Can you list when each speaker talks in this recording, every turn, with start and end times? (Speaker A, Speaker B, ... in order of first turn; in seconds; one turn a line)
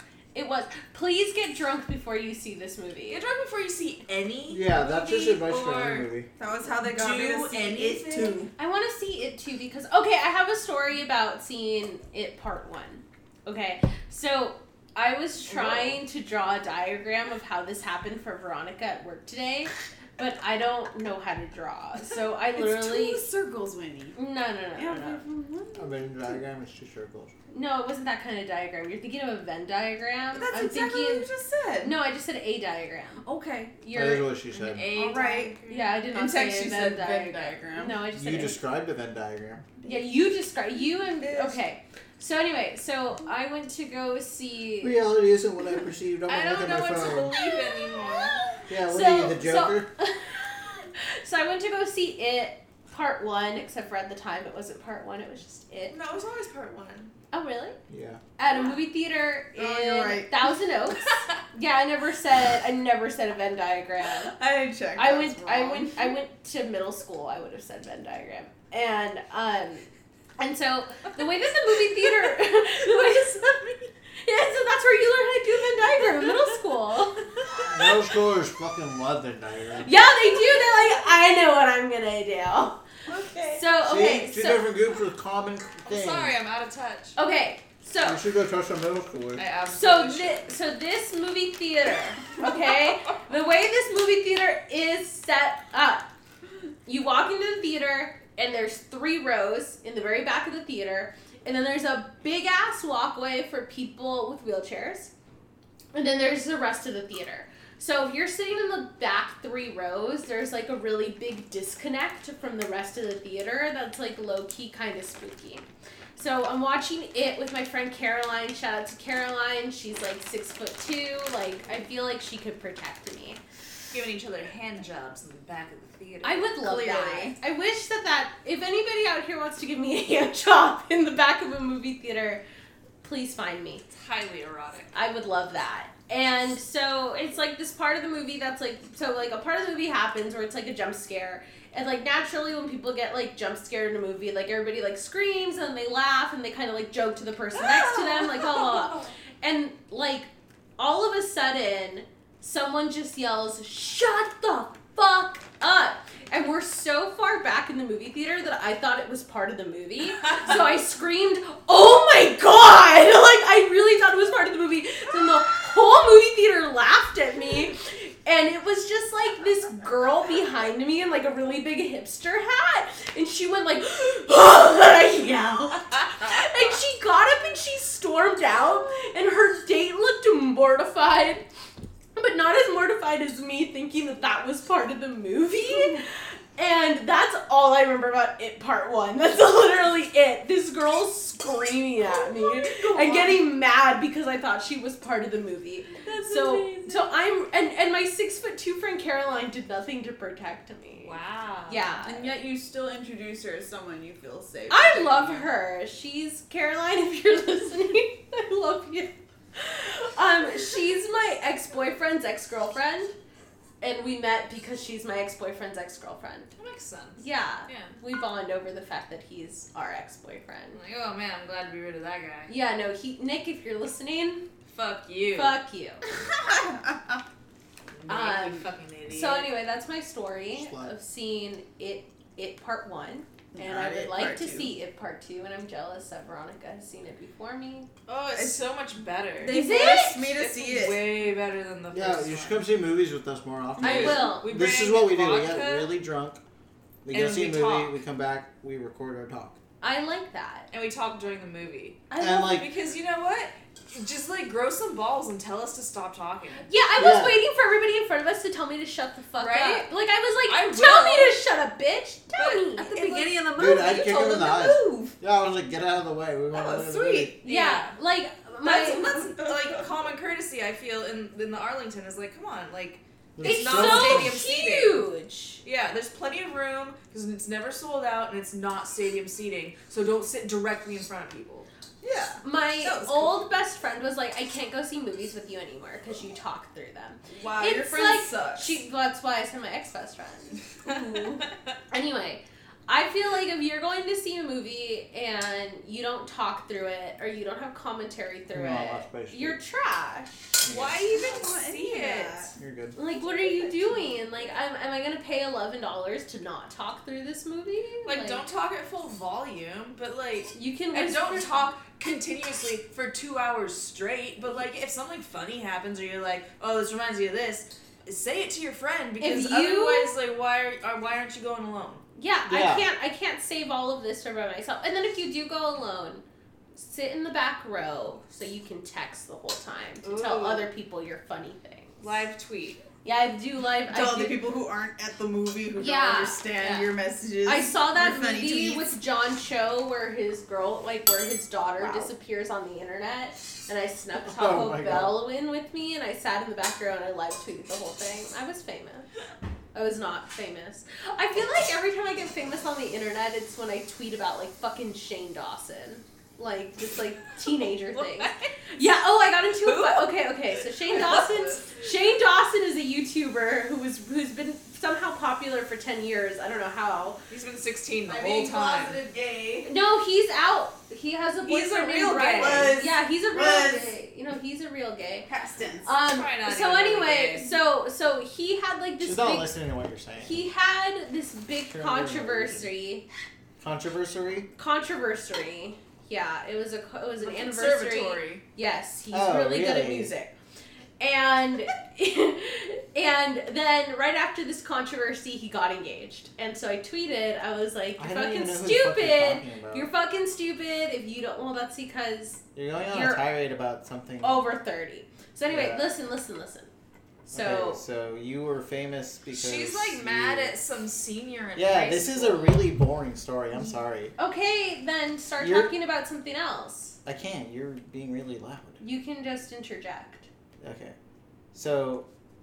Speaker A: 0.3-3.2
Speaker B: 3.1-6.1
Speaker C: 4.5-6.3
Speaker D: 6.4-8.5
Speaker B: 6.7-8.4
Speaker A: 8.6-23.2
Speaker B: 15.6-15.9
Speaker D: 22.6-24.2
Speaker A: 24.2-25.2
Speaker D: 24.8-26.4
Speaker C: 25.8-27.3
Speaker A: 27.5-31.3
Speaker D: 30.3-32.0
Speaker A: 31.8-33.2
Speaker D: 33.2-33.7
Speaker A: 33.8-34.4
Speaker C: 33.9-34.9
Speaker B: 34.5-36.0
Speaker D: 34.9-35.6
Speaker A: 35.7-38.6
Speaker D: 36.1-38.0
Speaker C: 38.1-39.7
Speaker D: 39.8-40.2
Speaker A: 39.9-45.0
Speaker D: 41.1-41.6
Speaker C: 44.8-47.4
Speaker B: 46.3-48.4
Speaker A: 47.4-48.2
Speaker C: 48.7-49.9
Speaker A: 48.8-56.0
Speaker B: 55.9-57.1
Speaker A: 57.3-57.8
Speaker C: 57.9-58.2
Speaker A: 58.4-64.3
Speaker D: 59.5-60.3
Speaker D: 64.3-66.2
Speaker A: 65.0-73.6
Speaker A: 74.2-77.3
Speaker C: 77.7-79.9
Speaker A: 79.8-82.8
Speaker D: 83.1-83.7
Speaker A: 83.5-84.7
Speaker C: 83.8-86.4
Speaker B: 85.8-87.2
Speaker A: 87.2-88.2
Speaker C: 88.0-89.4
Speaker B: 89.4-90.5
Speaker A: 89.7-96.1
Speaker A: 96.8-105.1
Speaker A: 105.9-123.4
Speaker B: 123.9-126.5
Speaker A: 126.2-132.4
Speaker D: 126.6-127.3
Speaker A: 133.0-133.8
Speaker B: 133.9-134.9
Speaker A: 134.9-181.4
Speaker B: 147.6-149.1
Speaker A: 182.2-202.3
Speaker D: 185.6-186.0
Speaker D: 192.0-193.4
Speaker B: 196.1-197.0
Speaker B: 201.0-201.9
Speaker D: 202.0-205.4
Speaker A: 204.7-213.2
Speaker A: 213.8-216.5
Speaker B: 216.6-217.9
Speaker A: 217.2-220.8
Speaker B: 220.7-222.5
Speaker A: 222.5-224.5
Speaker B: 224.7-225.6
Speaker A: 225.3-226.0
Speaker D: 226.4-227.2
Speaker B: 228.0-229.5
Speaker A: 228.1-237.9
Speaker C: 230.5-230.9
Speaker D: 233.5-234.7
Speaker B: 238.1-242.7
Speaker D: 238.3-238.6
Speaker D: 239.4-241.1
Speaker A: 239.5-240.3
Speaker C: 241.9-246.4
Speaker A: 243.8-244.5
Speaker B: 243.8-245.9
Speaker C: 247.0-249.6
Speaker B: 247.1-248.0
Speaker A: 249.8-250.7
Speaker B: 250.7-256.7
Speaker A: 252.1-252.6
Speaker C: 252.2-252.7
Speaker A: 256.7-263.4
Speaker C: 257.0-257.4
Speaker B: 259.4-259.9
Speaker B: 260.5-261.4
Speaker B: 262.4-263.1
Speaker D: 262.8-265.2
Speaker C: 263.6-267.4
Speaker D: 266.5-267.4
Speaker A: 267.4-269.3
Speaker B: 267.4-268.0
Speaker B: 268.6-275.1
Speaker C: 273.4-274.4
Speaker A: 273.4-275.6
Speaker B: 275.6-281.7
Speaker D: 282.0-283.4
Speaker A: 282.4-300.6
Speaker D: 287.3-288.8
Speaker C: 298.5-299.6
Speaker C: 300.6-301.0
Speaker B: 300.6-302.5
Speaker D: 301.1-302.5
Speaker C: 302.6-303.0
Speaker A: 303.0-308.4
Speaker D: 303.1-304.6
Speaker B: 308.1-322.0
Speaker A: 310.5-311.7
Speaker A: 319.2-320.1
Speaker A: 322.2-326.2
Speaker C: 322.5-322.9
Speaker A: 326.8-332.1
Speaker B: 330.0-330.7
Speaker B: 332.0-332.8
Speaker A: 333.0-334.5
Speaker D: 333.9-338.9
Speaker A: 335.8-349.1
Speaker D: 341.8-342.1
Speaker C: 344.2-345.2
Speaker A: 349.7-367.2
Speaker B: 357.8-358.5
Speaker B: 359.6-360.1
Speaker B: 360.9-361.7
Speaker D: 360.9-361.4
Speaker B: 367.3-369.0
Speaker D: 368.1-369.7
Speaker A: 369.6-375.3
Speaker B: 371.4-372.8
Speaker D: 372.2-374.0
Speaker D: 375.3-375.9
Speaker A: 375.9-379.5
Speaker B: 376.1-377.5
Speaker C: 379.0-380.4
Speaker A: 380.2-383.1
Speaker C: 381.7-382.7
Speaker C: 383.6-384.5
Speaker A: 384.6-390.4
Speaker B: 387.2-388.4
Speaker C: 389.1-390.1
Speaker A: 391.0-403.3
Speaker C: 398.0-399.9
Speaker C: 402.6-404.4
Speaker A: 404.2-406.7
Speaker C: 405.5-405.9
Speaker A: 407.3-407.8
Speaker C: 407.3-410.6
Speaker B: 409.3-412.7
Speaker C: 411.6-414.1
Speaker A: 414.2-417.0
Speaker C: 415.4-415.7
Speaker C: 417.1-418.8
Speaker A: 418.8-420.3
Speaker C: 420.6-420.9
Speaker C: 421.5-422.1